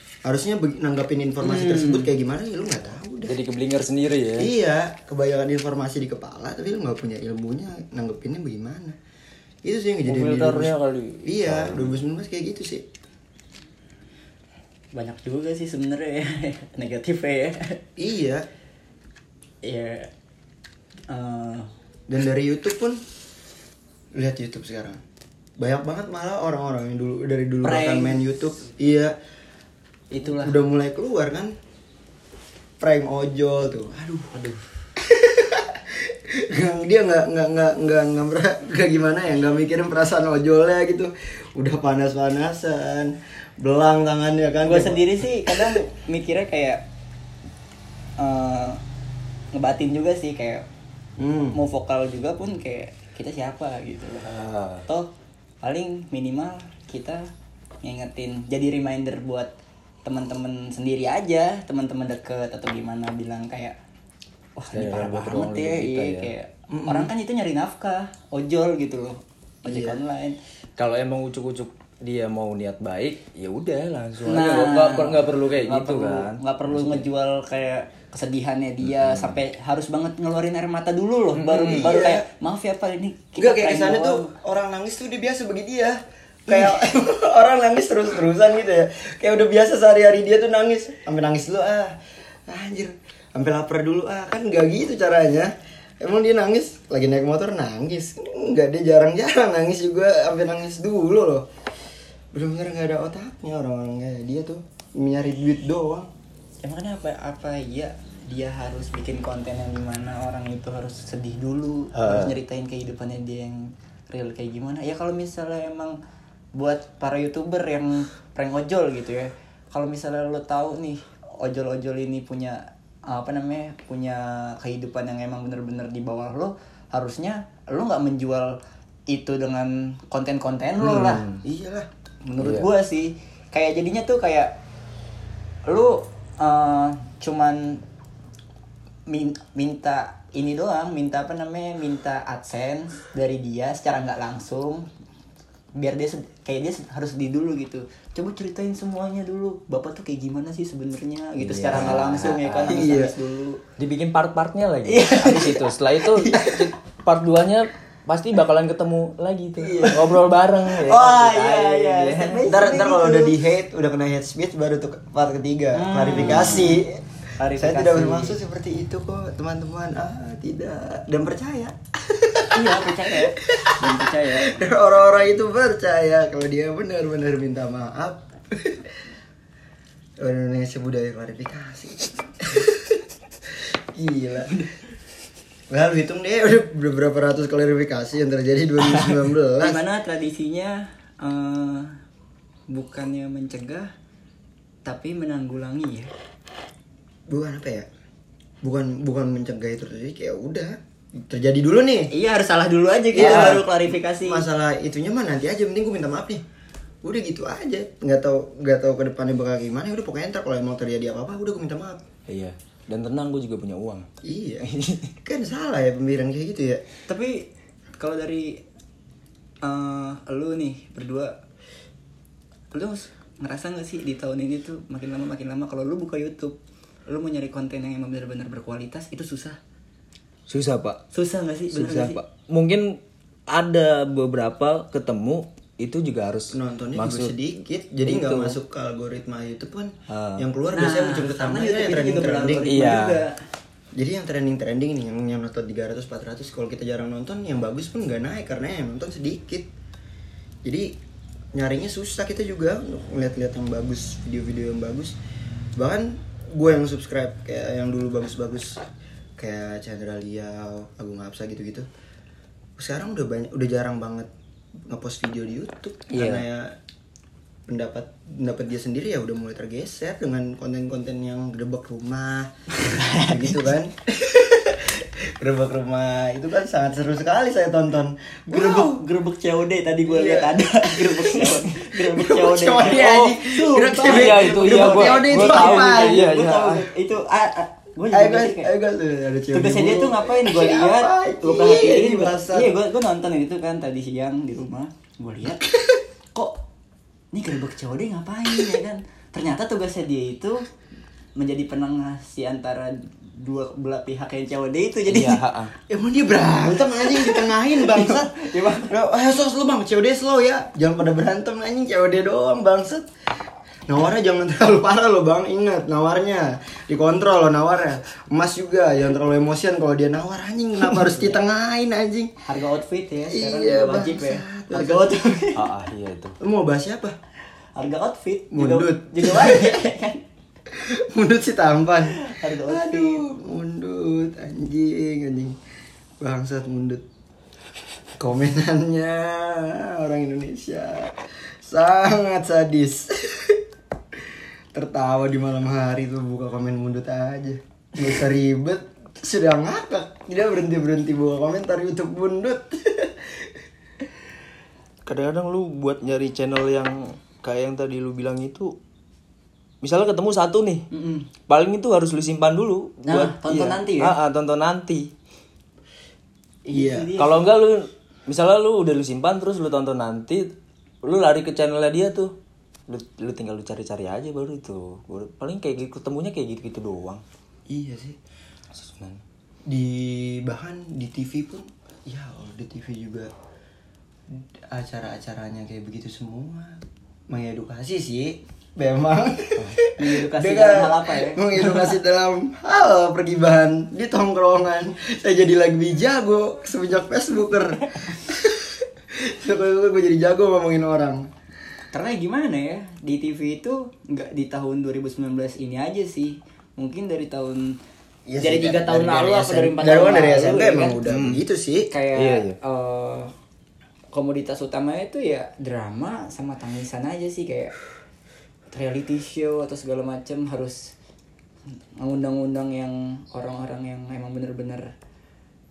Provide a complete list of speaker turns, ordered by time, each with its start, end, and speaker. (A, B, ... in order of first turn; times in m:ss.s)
0:00.2-0:03.4 A
0:01.4-0:02.1 B
0:03.2-0:04.5 C
0:04.4-0:09.0 A
0:09.6-0:12.8 A
0:10.0-0:12.0 C
0:14.9-0:17.8 B
0:18.0-0:18.4 A
0:19.6-0:20.1 B
0:21.1-0:21.7 B
0:22.1-0:23.0 A
0:24.2-0:25.0 A
0:25.6-0:29.1 A
0:27.6-0:28.2 B
0:30.1-0:30.6 B
0:30.2-0:31.5 A
0:32.8-0:34.3 A
0:34.3-0:34.6 B
0:35.0-0:45.8 A
0:44.6-0:46.8 B
0:48.2-0:48.8 B
0:49.5-0:50.6 B
0:51.2-0:51.6 A
0:51.5-0:54.3 B
0:54.2-0:54.8 C
0:55.6-0:57.3 B
0:57.8-0:59.5 B
1:00.0-1:03.8 B
1:04.6-1:10.4 B
1:04.7-1:06.3 C
1:06.7-1:07.1 A
1:09.6-1:10.0 A
1:10.8-1:17.0 C
1:14.3-1:24.3 B
1:18.8-1:19.4 C
1:21.3-1:22.0 C
1:21.7-1:22.2 A
1:23.4-1:41.5 A
1:42.3-1:46.1 A
1:46.6-1:56.0 B
1:51.9-1:52.4 C
1:56.6-2:08.6 B
2:09.1-2:11.2 B
2:10.8-2:11.4 C
2:11.4-2:11.9 A
2:12.2-2:14.5 B
2:12.4-2:12.7 C
2:15.7-2:17.8 B
2:19.1-2:24.8 B
2:25.8-2:33.6 B
2:31.4-2:32.8 C
2:32.7-2:33.1 A
2:33.8-2:42.4 C
2:34.9-2:35.7 B
2:36.3-2:36.7 A
2:39.6-2:40.2 A
2:40.8-2:43.4 B
2:40.8-2:41.1 A
2:42.4-2:58.9 A
2:45.7-2:46.8 B
2:46.2-2:46.7 C
2:47.4-2:48.4 B
2:52.5-2:54.6 B
3:00.2-3:04.6 A
3:05.7-3:09.8 A
3:09.6-3:12.0 B
3:12.7-3:13.9 B
3:14.8-3:16.1 B
3:17.3-3:17.9 A
3:18.6-3:22.1 A
3:22.1-3:24.4 B
3:23.1-3:26.4 A
3:23.2-3:23.6 C
3:27.0-3:32.0 A
3:32.3-3:34.1 C
3:34.2-3:36.8 A
3:34.6-3:35.1 C
3:37.1-3:38.6 B
3:39.6-3:41.4 B
3:42.7-3:46.6 B
3:47.1-3:49.6 B
3:50.5-3:51.0 C
3:51.1-3:52.2 B
3:51.7-3:57.3 C
3:56.5-4:03.0 A
3:58.1-3:58.5 B
4:00.1-4:00.4 C
4:00.7-4:03.3 B
4:02.7-4:03.2 C
4:03.9-4:09.7 A
4:10.6-4:10.9 A
4:11.5-4:15.2 A
4:15.8-4:18.8 A
4:19.4-4:21.9 A
4:22.8-4:24.3 A
4:24.8-4:26.7 A
4:26.1-4:26.4 C
4:27.7-4:39.0 A
4:32.8-4:33.3 B
4:38.5-4:48.7 B
4:40.0-4:46.4 A
4:42.9-4:43.4 C
4:44.0-4:46.9 C
4:48.1-4:52.7 A
4:49.5-4:55.7 B
4:55.6-4:56.0 A
4:57.3-5:00.7 B
5:01.4-5:05.4 B
5:05.1-5:05.7 C
5:05.9-5:13.1 A
5:06.9-5:08.8 B
5:13.9-5:22.3 A
5:21.1-5:21.4 B
5:22.4-5:25.6 B
5:23.3-5:25.2 A
5:25.6-5:26.4 C
5:26.4-5:27.2 A
5:27.8-5:30.2 B
5:28.5-5:29.8 A
5:30.7-5:35.6 A
5:32.1-5:33.2 B
5:36.2-5:37.0 A
5:38.2-5:43.6 A
5:44.2-5:53.6 A
5:55.0-5:58.7 C
5:59.8-6:00.9 C
6:00.9-6:01.3 B
6:01.5-6:05.1 C
6:03.0-6:04.1 B
6:06.7-6:07.4 B
6:06.7-6:07.1 A
6:07.2-6:10.5 C
6:11.0-6:12.3 C
6:12.9-6:17.2 C
6:17.7-6:18.2 A
6:18.7-6:19.2 C
6:19.7-6:23.3 A
6:24.3-6:41.3 A
6:30.0-6:31.9 B
6:41.9-6:47.8 B
6:48.3-6:51.9 A
6:48.4-6:51.0 B
6:51.0-6:51.4 C
6:51.9-6:53.3 B
6:52.1-6:52.6 C
6:54.1-6:57.7 B
6:58.7-7:00.9 B
7:02.0-7:04.9 B